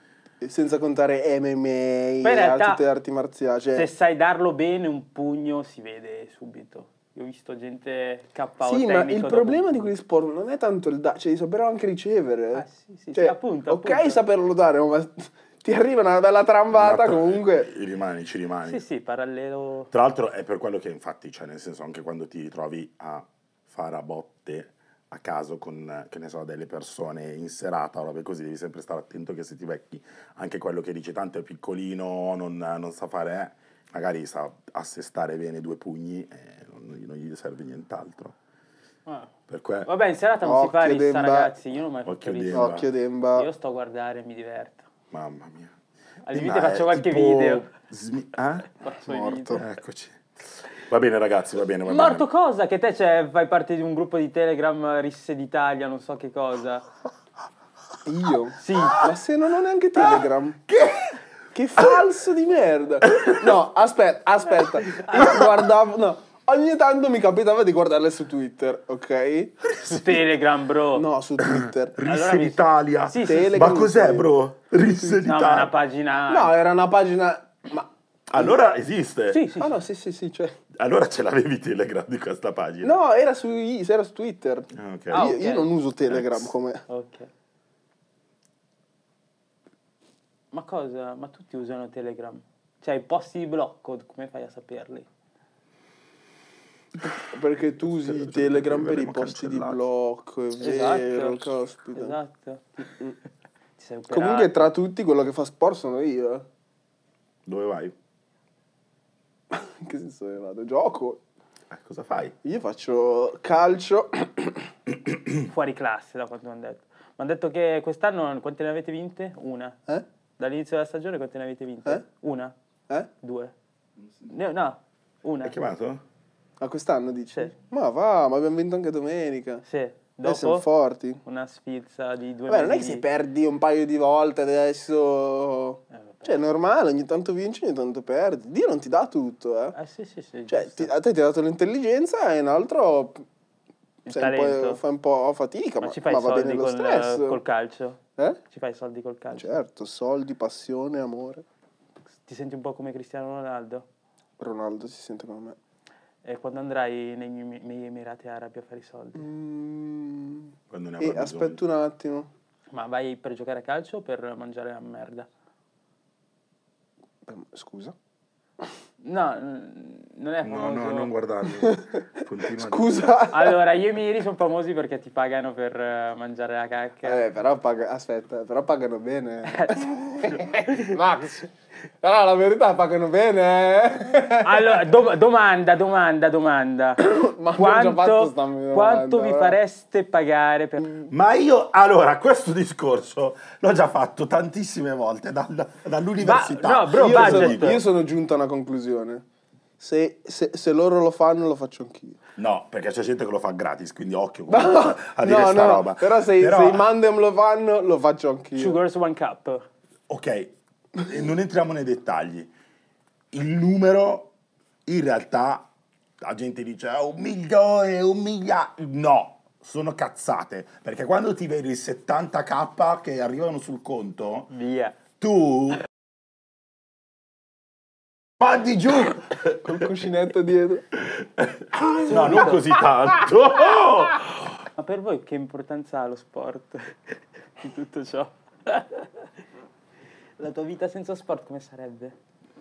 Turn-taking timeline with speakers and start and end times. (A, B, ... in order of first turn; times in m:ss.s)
0:00.4-0:03.9 A
0:02.2-0:02.8 B
0:03.7-0:09.9 B
0:08.6-0:17.7 A
0:12.5-0:14.2 B
0:16.7-0:18.8 C
0:18.6-0:19.9 B
0:19.9-0:38.3 C
0:39.0-0:39.3 B
0:39.5-0:39.9 C
0:39.8-0:42.8 B
0:40.4-0:41.5 A
0:42.0-0:42.8 C
0:42.5-0:43.5 A
0:43.3-0:44.8 B
0:45.1-0:45.7 C
0:46.2-0:47.6 B
0:46.3-0:48.7 C
0:48.8-0:49.6 B
0:49.0-0:49.6 A
0:49.6-0:50.2 C
0:50.9-0:52.2 C
0:51.8-0:56.8 B
0:58.0-1:00.6 A
0:58.6-0:59.1 B
1:00.0-1:01.2 C
1:01.5-1:09.6 A
1:03.0-1:03.6 C
1:05.1-1:05.5 C
1:09.7-1:10.2 C
1:09.8-1:11.0 B
1:10.9-1:12.0 A
1:11.4-1:15.7 C
1:12.0-1:13.6 B
1:13.2-1:14.3 A
1:15.2-1:16.5 B
1:16.3-1:18.6 A
1:18.3-1:19.4 C
1:19.3-1:19.7 B
1:19.6-1:20.6 A
1:20.7-1:23.0 C
1:22.8-1:26.8 A
1:24.7-1:25.3 C
1:25.1-1:25.7 B
1:26.1-1:26.5 C
1:26.9-1:27.3 B
1:30.5-1:35.1 B
1:37.0-1:42.2 A
1:37.8-1:39.8 C
1:40.6-1:42.9 B
1:43.8-1:44.6 B
1:44.1-1:46.4 A
1:47.4-1:47.9 C
1:49.5-1:51.2 A
1:51.7-1:52.3 C
1:52.4-1:54.7 A
1:55.4-1:59.8 B
2:00.4-2:02.5 B
2:03.2-2:03.5 B
2:04.2-2:05.5 B
2:05.4-2:06.0 C
2:06.6-2:09.6 A
2:09.6-2:10.6 B
2:10.2-2:11.2 A
2:11.2-2:13.0 B
2:12.5-2:19.8 A
2:16.1-2:16.3 B
2:19.7-2:20.9 B
2:20.5-2:23.2 A
2:24.1-2:24.8 B
2:24.1-2:27.4 A
2:25.8-2:28.0 B
2:28.5-2:29.6 B
2:29.3-2:31.4 A
2:32.2-2:33.8 B
2:34.4-2:35.6 A
2:36.2-2:39.2 B
2:39.2-2:42.3 A
2:40.7-2:41.6 C
2:42.7-2:45.3 B
2:47.2-2:47.9 A
2:49.0-2:51.1 B
2:50.4-2:53.0 C
2:51.5-2:53.6 A
2:53.3-2:57.2 B
2:57.0-3:01.5 A
2:59.5-3:01.0 B
3:02.0-3:04.9 A
3:04.4-3:07.0 B
3:07.0-3:09.6 A
3:07.6-3:10.9 B
3:10.8-3:11.1 A
3:11.1-3:17.8 C
3:16.2-3:17.8 B
3:16.9-3:19.2 A
3:19.8-3:22.2 A
3:22.4-3:26.8 C
3:24.5-3:28.8 A
3:28.6-3:29.6 B
3:30.1-3:32.5 C
3:33.3-3:34.3 C
3:34.8-3:35.7 C
3:36.2-3:44.5 C
3:44.5-3:45.0 B
3:45.2-3:45.8 C
3:48.4-3:49.7 C
3:49.6-3:50.8 A
3:51.0-3:54.5 C
3:52.0-3:52.7 B
3:54.8-3:56.9 B
3:57.6-3:59.3 B
4:00.4-4:02.1 B